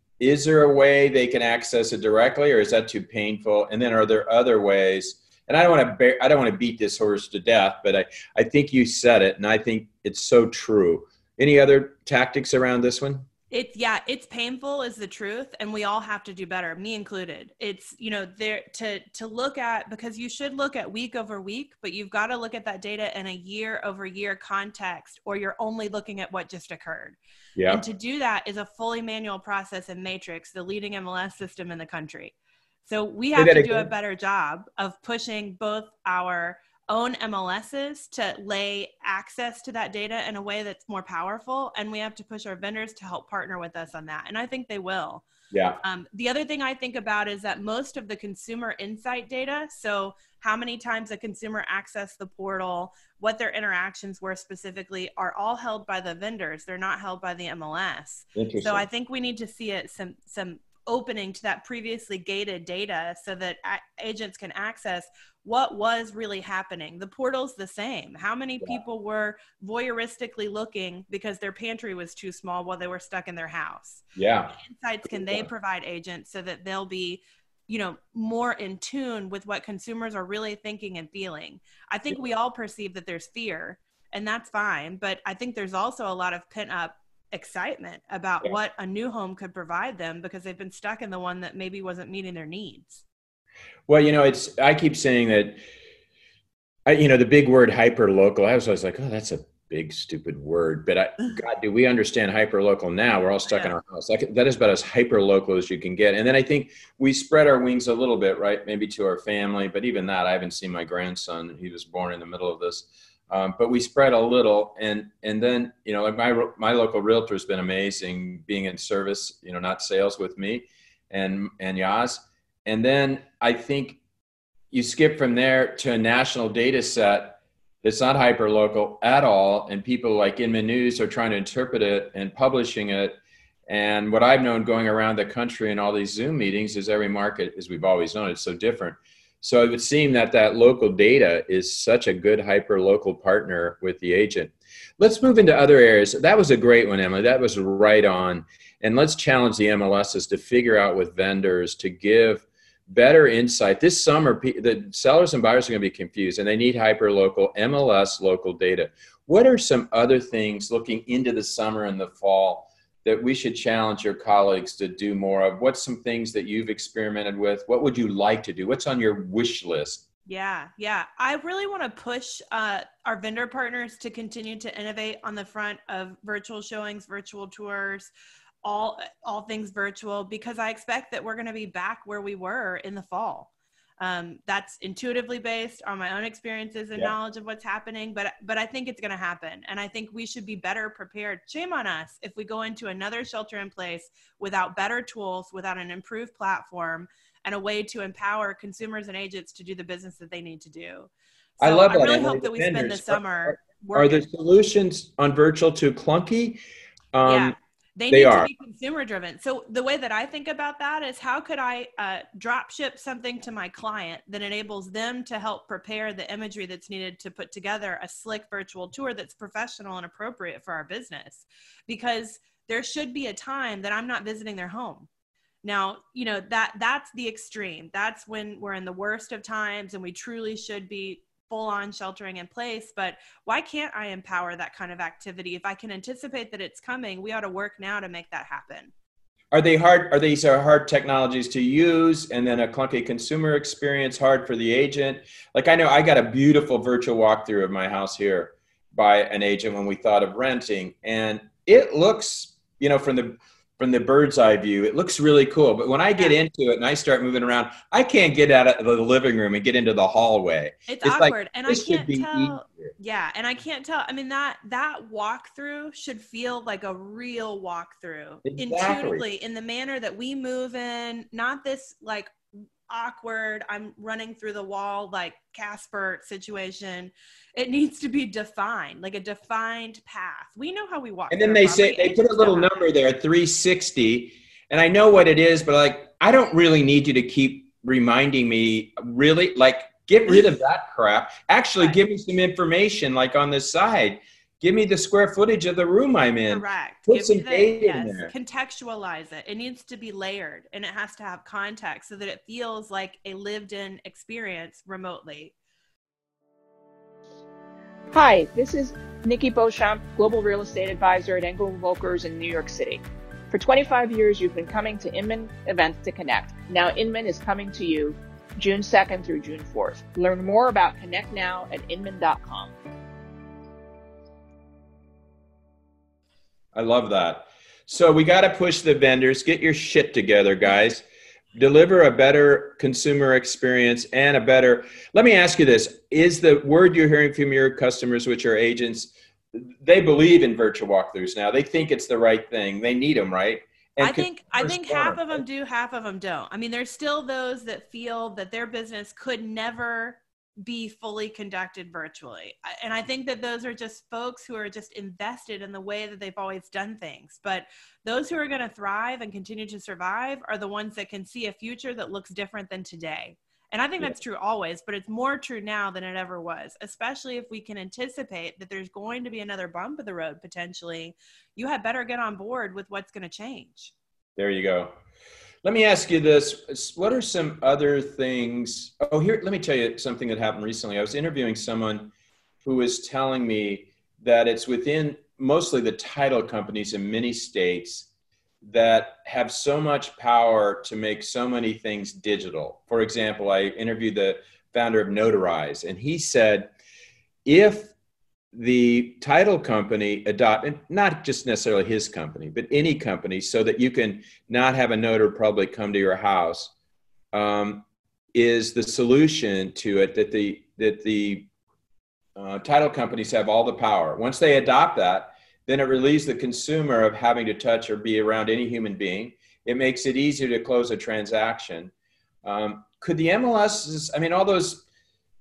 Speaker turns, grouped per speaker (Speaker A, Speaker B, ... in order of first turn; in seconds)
Speaker A: 0.2-13.2, 27.6-27.8, 33.3-33.9, 45.5-45.8, 58.3-58.9, 74.1-74.5, 75.2-75.5, 93.9-95.6, 96.9-124.0, 124.7-170.0, 201.6-206.6, 207.1-207.5, 208.1-208.5, 239.5-262.9, 268.4-269.2, 281.3-298.3, 326.7-331.0, 331.6-345.4, 374.4-374.9, 375.6-382.1, 382.6-388.1, 388.6-396.7, 397.4-397.9, 398.5-406.7, 407.3-411.5, 412.4-421.9, 422.4-424.8
Speaker B: 13.5-45.2, 45.8-74.0, 74.5-93.0, 103.5-103.8, 170.3-178.1, 178.6-204.3, 207.2-225.1, 225.6-238.9, 260.9-272.3, 272.9-282.8, 296.5-305.5, 344.0-373.9
Speaker C: 308.1-322.7